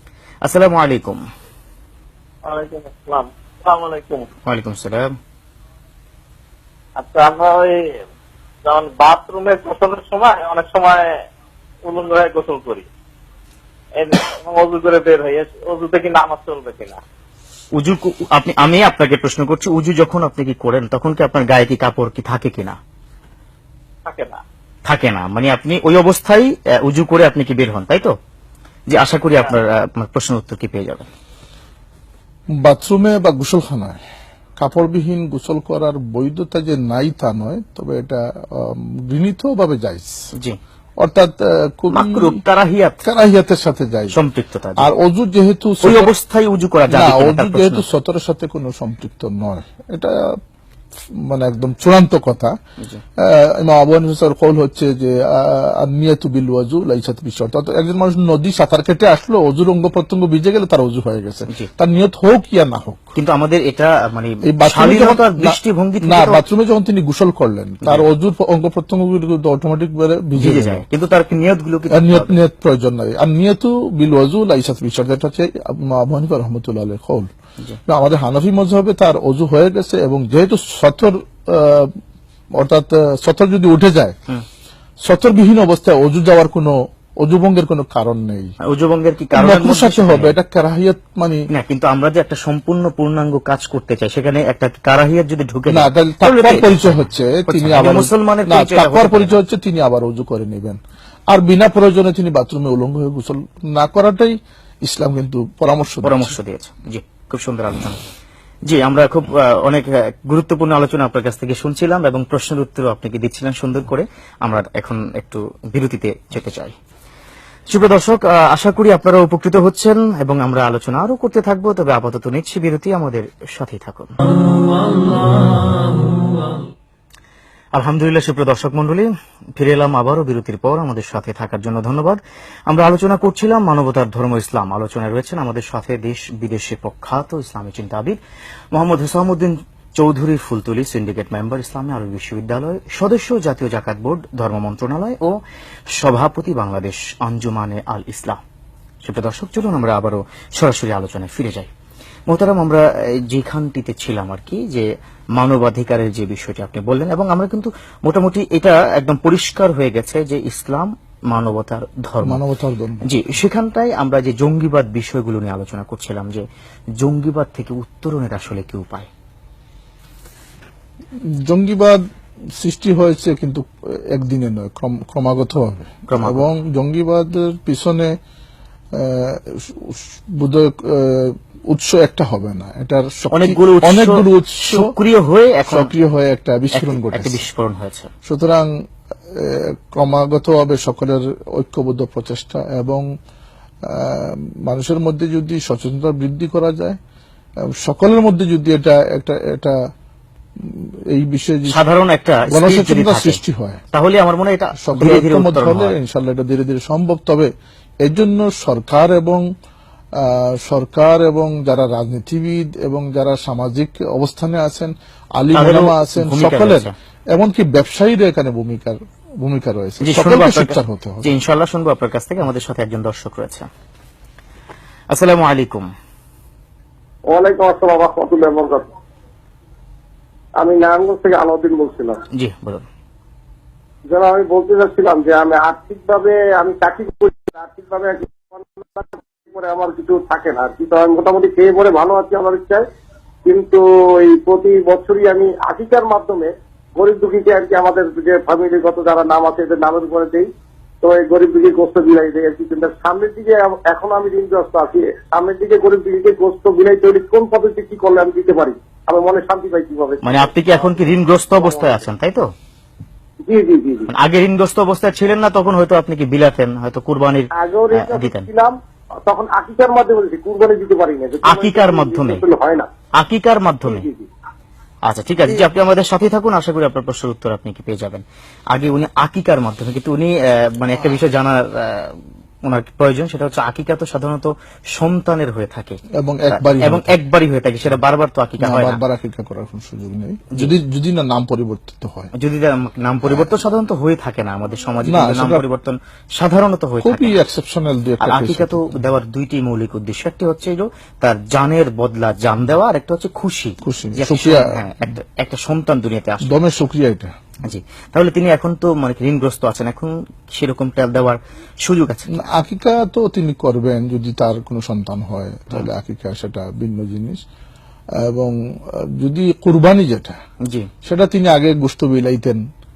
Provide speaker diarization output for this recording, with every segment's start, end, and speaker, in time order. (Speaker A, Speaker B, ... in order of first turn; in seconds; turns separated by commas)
Speaker A: 0.4-1.2, Speaker B: 2.5-4.3, Speaker A: 4.5-5.1, Speaker B: 7.0-8.0, Speaker B: 8.7-11.2, Speaker B: 11.8-12.9, Speaker B: 13.9-17.0, Speaker A: 17.7-22.8, Speaker B: 24.1-24.4, Speaker A: 24.9-28.1, Speaker A: 28.9-31.1, Speaker C: 32.6-34.0, Speaker C: 34.6-40.2, Speaker C: 41.0-42.4, Speaker A: 41.9-43.0, Speaker C: 43.0-44.2, Speaker A: 44.1-44.9, Speaker C: 44.8-46.1, Speaker A: 45.8-47.8, Speaker C: 46.9-50.2, Speaker C: 51.2-52.5, Speaker C: 53.2-63.1, Speaker A: 63.2-66.4, Speaker C: 64.5-70.8, Speaker A: 70.4-72.4, Speaker C: 71.9-77.3, Speaker C: 77.9-82.0, Speaker C: 82.6-84.2, Speaker C: 85.0-88.5, Speaker A: 88.7-90.4, Speaker C: 89.3-91.4, Speaker A: 91.5-99.4, Speaker C: 95.7-100.8, Speaker C: 101.3-106.3, Speaker A: 106.0-108.1, Speaker A: 108.7-116.7, Speaker A: 117.7-124.2, Speaker A: 127.8-138.2, Speaker A: 138.7-145.4, Speaker A: 145.9-148.4, Speaker A: 149.0-151.7, Speaker A: 152.3-162.4, Speaker C: 162.2-163.1, Speaker A: 163.1-166.5, Speaker A: 167.0-169.1, Speaker C: 171.4-172.0, Speaker C: 172.6-178.2, Speaker A: 176.1-176.4, Speaker C: 178.9-184.9, Speaker A: 183.3-185.9, Speaker C: 185.7-187.4, Speaker A: 186.7-188.1, Speaker C: 188.3-188.7, Speaker C: 189.3-193.1, Speaker C: 193.9-197.0, Speaker C: 197.7-199.8, Speaker C: 200.6-201.8, Speaker A: 201.7-203.4, Speaker C: 202.5-203.8, Speaker A: 203.9-205.9, Speaker C: 204.8-207.5, Speaker C: 208.0-209.5, Speaker C: 210.2-221.3, Speaker A: 215.6-216.9, Speaker A: 220.0-223.7, Speaker A: 225.1-225.9, Speaker D: 227.3-228.9, Speaker D: 230.6-232.2, Speaker A: 232.4-232.8, Speaker D: 234.1-242.8, Speaker D: 243.5-250.5, Speaker D: 251.0-261.0, Speaker A: 260.2-262.5, Speaker D: 261.6-262.0, Speaker D: 263.4-264.1, Speaker A: 264.1-268.5, Speaker D: 267.6-272.9, Speaker A: 271.4-272.4, Speaker A: 273.2-274.1, Speaker D: 273.9-274.3, Speaker A: 275.1-286.0, Speaker C: 286.2-287.2, Speaker A: 286.5-289.0, Speaker C: 288.6-292.3, Speaker A: 292.4-297.4, Speaker C: 295.0-295.6, Speaker C: 297.0-298.9, Speaker A: 298.2-306.5, Speaker C: 303.8-304.8, Speaker C: 306.4-307.3, Speaker A: 307.6-312.5, Speaker C: 312.3-317.4, Speaker C: 318.2-320.4, Speaker C: 321.0-322.6